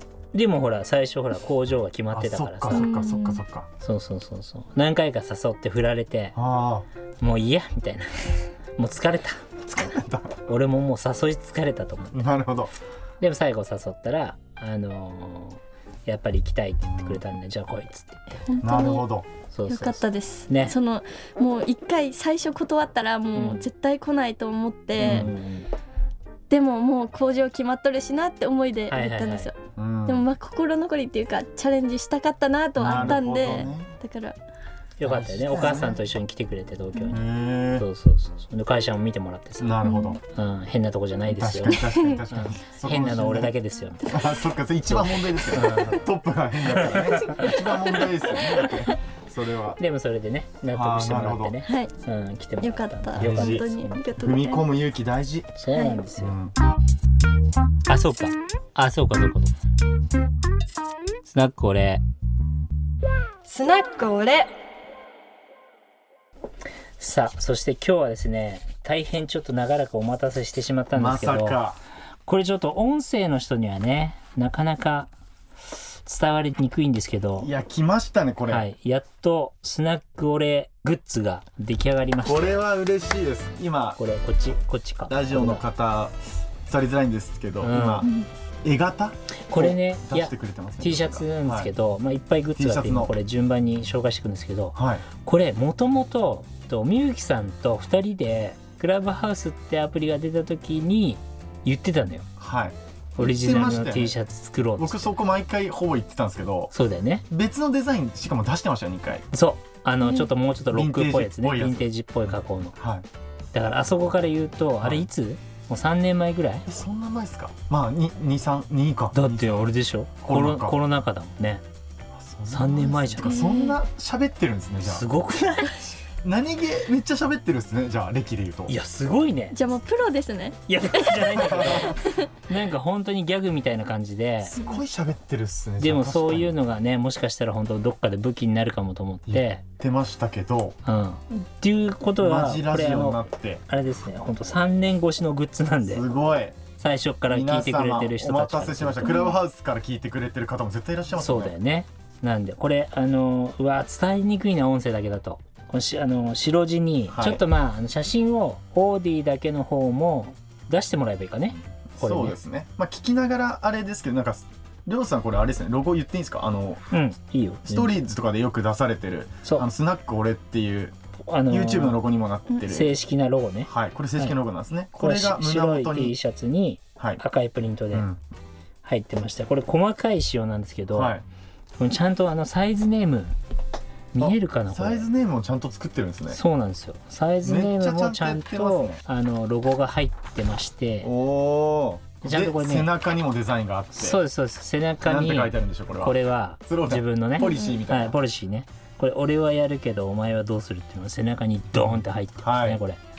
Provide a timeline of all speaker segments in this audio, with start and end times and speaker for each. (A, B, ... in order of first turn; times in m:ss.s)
0:00.3-0:02.9 A
0:02.1-0:03.7 B
0:02.7-0:03.4 C
0:03.8-0:06.4 A
0:06.4-0:06.9 B
0:07.2-0:09.4 A
0:09.7-0:10.4 B
0:10.5-0:12.2 A
0:12.1-0:12.7 B
0:13.2-0:18.3 A
0:16.9-0:17.2 B
0:18.3-0:19.1 C
0:18.6-0:19.3 B
0:19.5-0:20.8 A
0:19.7-0:25.3 C
0:23.4-0:23.6 A
0:25.0-0:25.3 B
0:25.0-0:25.7 A
0:26.5-0:29.5 C
0:28.9-0:29.5 A
0:29.8-0:30.3 B
0:30.1-0:34.4 C
0:32.8-0:34.0 B
0:32.9-0:33.2 A
0:35.0-0:39.8 A
0:35.0-0:36.0 B
0:37.1-0:37.9 B
0:39.6-0:40.2 B
0:39.8-0:40.2 C
0:40.3-0:44.2 A
0:41.3-0:43.5 B
0:41.7-0:42.2 C
0:44.0-0:49.8 B
0:44.9-0:46.0 A
0:46.8-0:47.5 A
0:49.8-0:54.1 A
0:50.7-0:51.6 B
0:51.7-0:51.9 C
0:52.6-0:54.7 C
0:53.2-0:55.6 B
0:55.6-0:56.4 A
0:55.7-0:56.0 C
0:56.2-0:56.5 B
0:57.9-0:59.6 A
1:01.3-1:02.0 A
1:03.5-1:04.5 C
1:07.0-1:11.6 A
1:10.9-1:11.8 B
1:12.3-1:15.1 A
1:16.0-1:17.5 A
1:17.4-1:18.7 B
1:18.5-1:22.6 A
1:22.2-1:24.0 B
1:24.0-1:25.6 A
1:25.1-1:31.7 B
1:27.6-1:28.1 A
1:29.5-1:42.3 A
1:32.6-1:33.2 B
1:34.8-1:35.1 B
1:42.4-1:44.2 B
1:43.2-1:45.1 A
1:44.8-1:46.7 B
1:46.7-1:47.2 A
1:47.3-1:49.3 B
1:49.3-1:52.8 A
1:50.7-1:51.9 B
1:52.8-1:53.1 B
1:53.5-1:56.7 A
1:54.8-1:55.1 B
1:56.7-1:59.7 B
1:59.1-2:01.6 A
2:00.2-2:00.8 B
2:02.1-2:05.1 B
2:02.5-2:03.3 A
2:03.2-2:03.8 C
2:04.8-2:06.0 A
2:06.2-2:08.8 B
2:08.7-2:09.6 A
2:09.5-2:11.2 C
2:10.7-2:14.6 A
2:11.4-2:12.0 B
2:11.9-2:12.3 C
2:14.5-2:14.8 C
2:14.5-2:16.6 B
2:15.8-2:19.6 A
2:19.3-2:20.8 B
2:20.9-2:26.0 A
2:22.2-2:23.6 B
2:25.8-2:26.6 B
2:26.8-2:29.2 A
2:27.3-2:31.6 B
2:29.0-2:29.4 C
2:31.2-2:42.4 A
2:37.1-2:37.4 B
2:42.0-2:46.9 B
2:46.9-2:48.0 A
2:47.7-2:50.9 B
2:51.3-2:52.0 A
2:51.5-2:53.0 B
2:52.7-2:54.4 A
2:53.7-2:56.2 B
2:55.0-2:58.1 A
2:57.0-2:57.2 B
2:57.9-2:58.2 B
2:58.8-3:01.1 A
3:00.9-3:01.2 B
3:01.8-3:03.4 A
3:04.1-3:05.1 A
3:04.2-3:06.4 B
3:06.3-3:11.1 A
3:07.4-3:09.0 B
3:11.0-3:14.2 B
3:12.2-3:12.9 A
3:14.0-3:23.0 A
3:15.0-3:18.2 B
3:17.4-3:17.8 C
3:22.4-3:22.8 B